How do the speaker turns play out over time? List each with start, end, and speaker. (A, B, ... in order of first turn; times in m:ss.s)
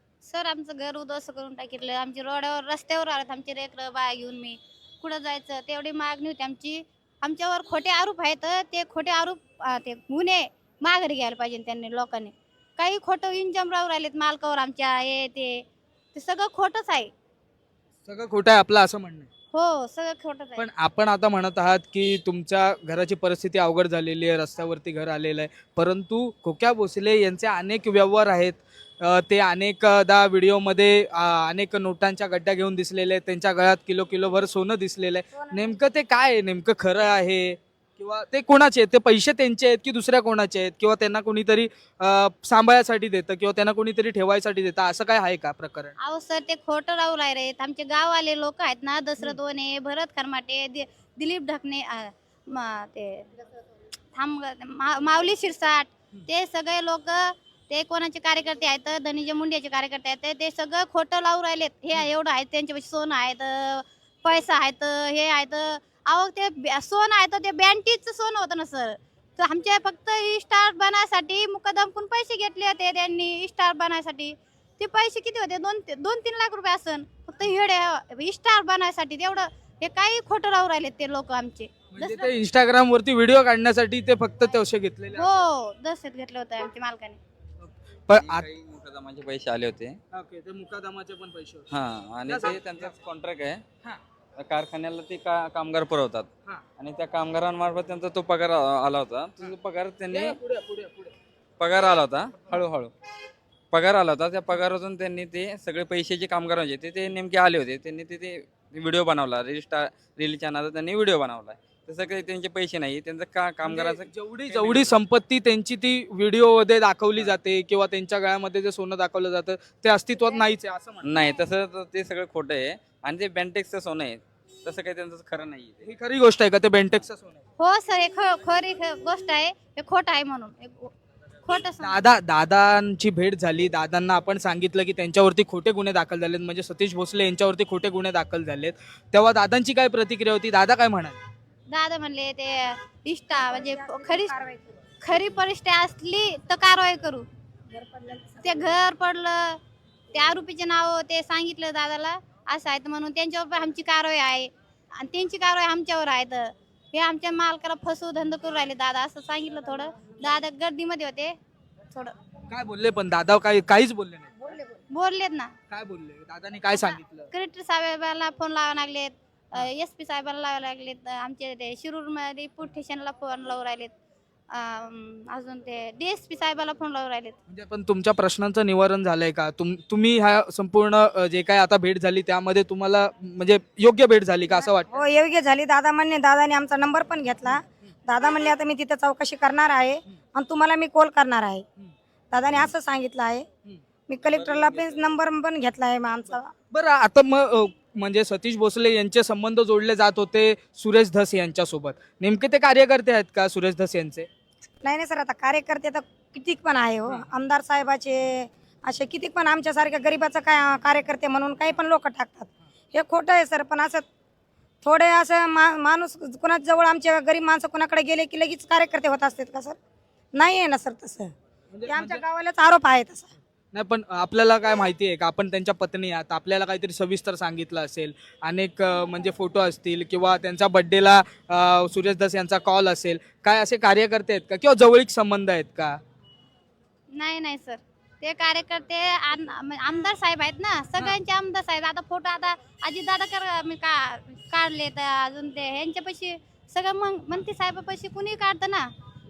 0:00.2-0:17.1 A
0:18.0-0:19.3 B
0:19.5-0:20.7 A
0:20.6-0:46.0 B
0:35.3-0:35.7 C
0:46.0-0:53.3 A
0:54.2-1:22.3 A
1:21.9-1:25.3 B
1:25.1-1:27.2 A
1:27.6-1:28.5 B
1:28.1-1:30.0 D
1:30.1-1:31.7 B
1:31.7-1:33.6 D
1:32.3-1:32.9 B
1:34.4-1:40.4 D
1:40.1-1:41.1 B
1:41.6-1:42.9 D
1:43.7-1:54.9 D
1:53.6-2:01.1 B
2:01.0-2:05.8 D
2:05.8-2:07.4 B
2:07.6-2:10.9 A
2:11.4-2:12.0 A
2:11.8-2:21.2 B
2:21.7-2:24.4 A
2:23.4-2:24.8 C
2:25.0-2:27.3 A
2:27.7-2:28.4 C
2:28.4-2:29.6 A
2:30.1-2:41.4 A
2:42.5-2:44.5 B
2:44.9-2:45.5 A
2:45.7-2:47.3 B
2:46.7-2:53.9 A
2:54.5-2:57.4 A
2:57.5-3:05.0 B
3:04.9-3:11.7 C
3:12.3-3:13.5 C
3:14.1-3:16.5 C
3:16.7-3:24.3 B
3:24.8-3:34.0 C
3:34.8-3:39.8 C
3:40.4-3:41.3 C
3:41.7-3:42.2 B
3:41.9-3:43.3 C
3:43.7-3:56.0 B
3:57.1-4:08.9 A